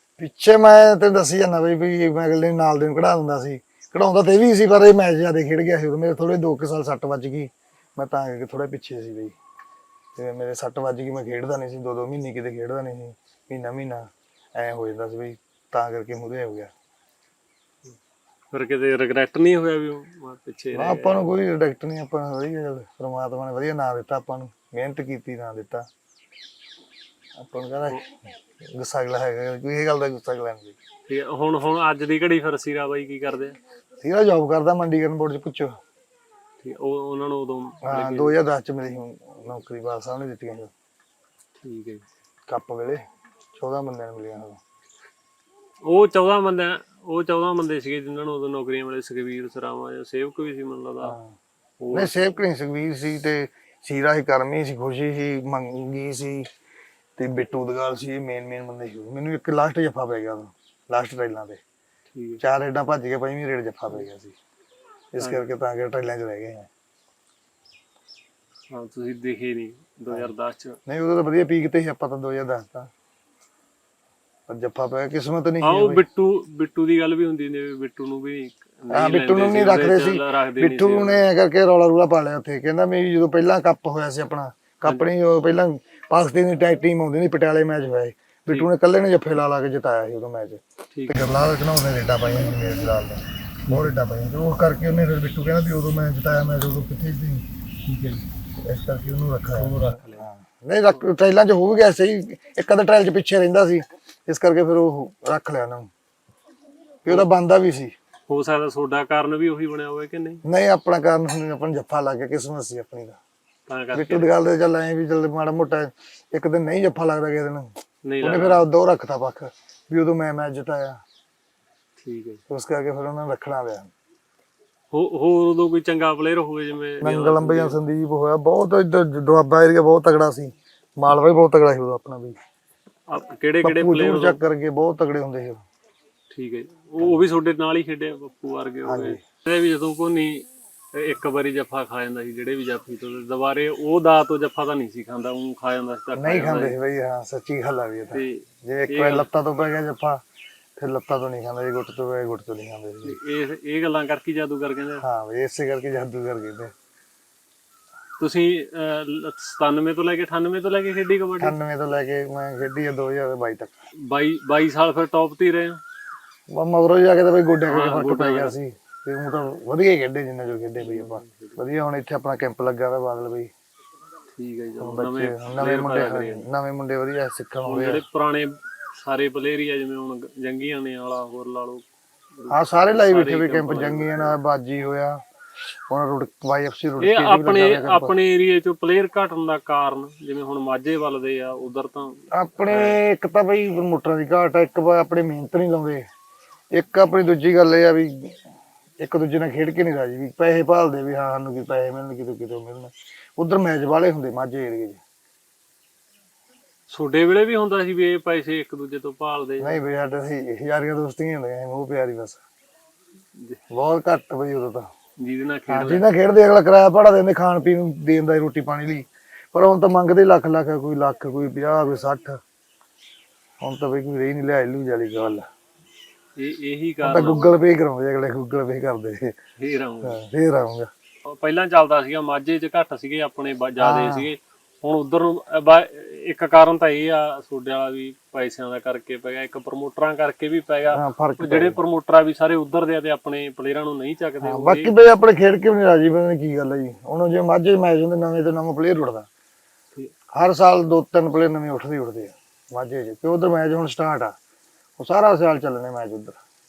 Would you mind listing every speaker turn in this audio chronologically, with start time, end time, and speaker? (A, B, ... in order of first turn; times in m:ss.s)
0:00.2-0:09.3 A
0:10.2-0:16.7 A
0:18.5-0:21.3 B
0:20.7-0:25.8 A
0:27.4-0:30.8 A
0:31.1-0:33.6 B
0:34.0-0:35.7 A
0:36.6-0:38.4 B
0:37.8-0:40.7 A
0:41.6-0:42.0 B
0:42.5-0:43.0 A
0:43.6-0:44.6 A
0:45.8-0:51.2 B
0:51.0-0:51.3 A
0:51.8-0:52.1 B
0:51.9-0:56.5 A
0:57.2-1:01.6 A
1:02.1-1:02.4 B
1:02.4-1:04.4 A
1:05.1-1:06.7 A
1:05.2-1:05.4 B
1:08.7-1:10.8 B
1:10.9-1:12.9 A
1:14.5-1:16.0 A
1:15.6-1:21.3 B
1:18.9-1:37.4 A
1:30.9-1:31.2 B
1:33.7-1:33.9 B
1:37.8-1:38.2 B
1:38.6-1:45.9 A
1:39.5-1:40.2 B
1:47.0-1:47.9 A
1:48.3-1:50.4 B
1:50.4-1:53.2 A
1:53.7-1:54.3 B
1:53.9-1:57.7 A
1:58.0-1:58.6 B
1:58.2-2:01.0 A
2:02.0-2:02.4 B
2:02.5-2:03.9 A
2:04.9-2:07.8 B
2:07.0-2:12.4 A
2:13.1-2:14.4 B
2:13.6-2:15.6 A
2:16.3-2:26.8 B
2:17.0-2:17.3 A
2:18.8-2:19.2 A
2:26.2-2:30.2 A
2:28.1-2:29.2 B
2:30.8-2:33.2 A
2:33.0-2:35.0 B
2:35.0-2:36.7 A
2:38.2-2:41.6 B
2:41.4-2:43.7 A
2:44.0-2:45.8 B
2:46.5-2:53.5 A
2:47.7-2:48.6 B
2:50.8-2:51.6 B
2:54.3-2:56.4 B
2:54.8-2:58.0 A
2:57.6-3:01.8 B
3:02.4-3:04.4 B
3:02.5-3:05.2 A
3:05.9-3:08.2 A
3:07.0-3:13.0 B
3:12.3-3:16.0 A
3:16.8-3:18.4 A
3:19.0-3:25.0 A
3:26.9-3:29.8 B
3:29.6-3:32.4 A
3:33.7-3:34.9 A
3:35.2-3:36.1 B
3:35.7-3:42.4 A
3:43.6-3:45.4 A
3:46.4-3:47.6 B
3:47.0-3:49.3 A
3:49.6-3:50.2 B
3:50.0-3:50.9 A
3:51.2-4:04.9 B
3:53.8-3:54.3 A
4:00.9-4:01.8 A
4:04.4-4:09.3 A
4:10.3-4:14.3 A
4:15.0-4:16.4 A